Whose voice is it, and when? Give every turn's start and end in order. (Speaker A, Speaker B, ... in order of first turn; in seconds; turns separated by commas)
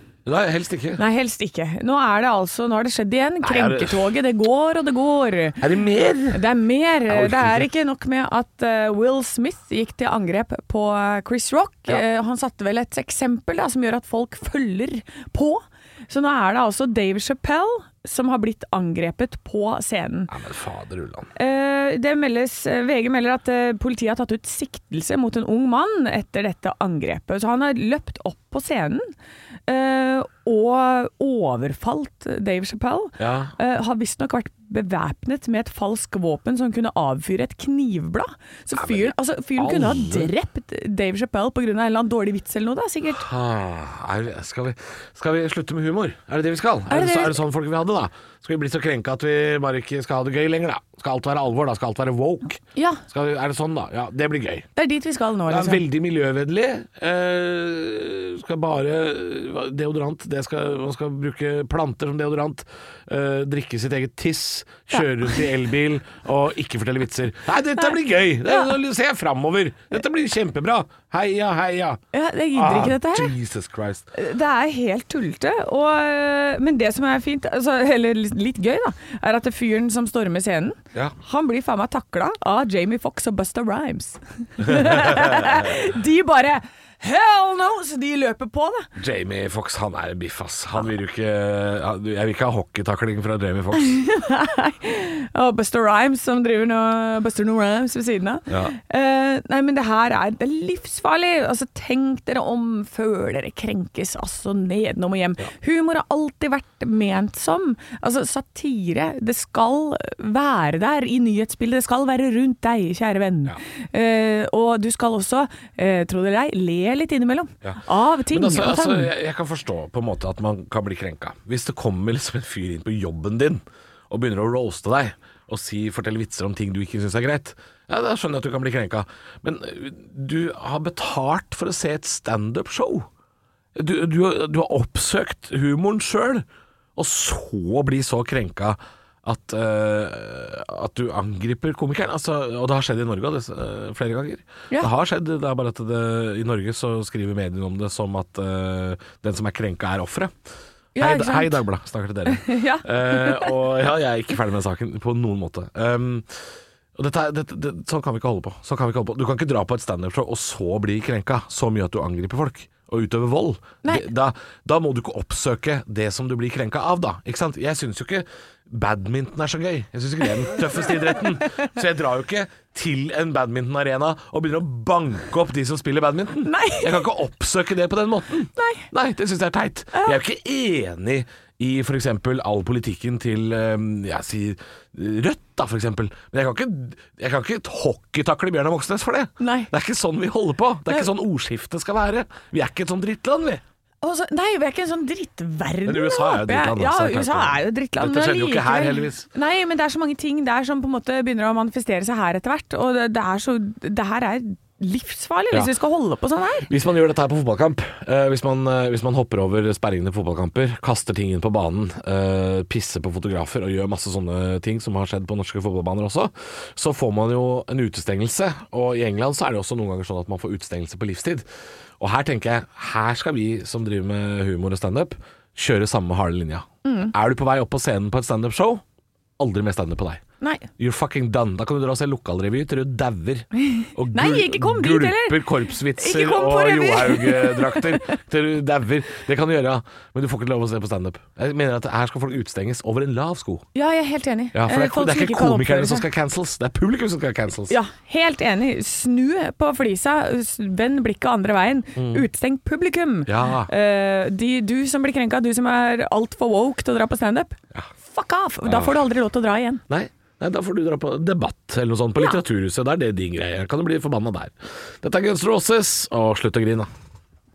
Speaker A: 0.2-1.0, Speaker B: 1.0-5.6, Speaker A: 3.4-4.1, Speaker A: 5.6-6.4, Speaker B: 6.3-20.3, Speaker A: 7.1-7.7, Speaker A: 20.3-21.3, Speaker B: 21.4-29.1, Speaker B: 29.7-43.2, Speaker A: 33.2-33.5, Speaker A: 38.7-40.3, Speaker A: 43.1-54.7, Speaker B: 46.9-47.4, Speaker B: 52.7-53.0, Speaker B: 54.8-55.8, Speaker A: 55.5-74.1, Speaker B: 72.1-73.3, Speaker B: 74.1-88.9, Speaker A: 84.6-85.8, Speaker A: 89.0-94.0, Speaker B: 93.8-119.1, Speaker A: 98.5-98.7, Speaker A: 117.6-133.1, Speaker A: 133.7-136.4, Speaker A: 136.9-150.3, Speaker B: 150.9-151.6, Speaker A: 150.9-193.6, Speaker B: 152.3-153.6, Speaker B: 176.4-177.0, Speaker B: 178.6-178.9, Speaker B: 189.4-189.7, Speaker B: 194.0-206.7, Speaker A: 195.8-199.3, Speaker A: 206.7-221.5, Speaker A: 222.0-228.8, Speaker B: 226.8-227.1, Speaker A: 229.4-230.2, Speaker B: 230.4-230.7, Speaker A: 230.8-243.6, Speaker B: 233.7-238.1, Speaker B: 243.7-246.1, Speaker A: 244.5-247.8, Speaker B: 247.7-259.8, Speaker A: 251.9-252.2, Speaker A: 253.2-253.7, Speaker A: 258.6-259.1, Speaker A: 259.9-266.9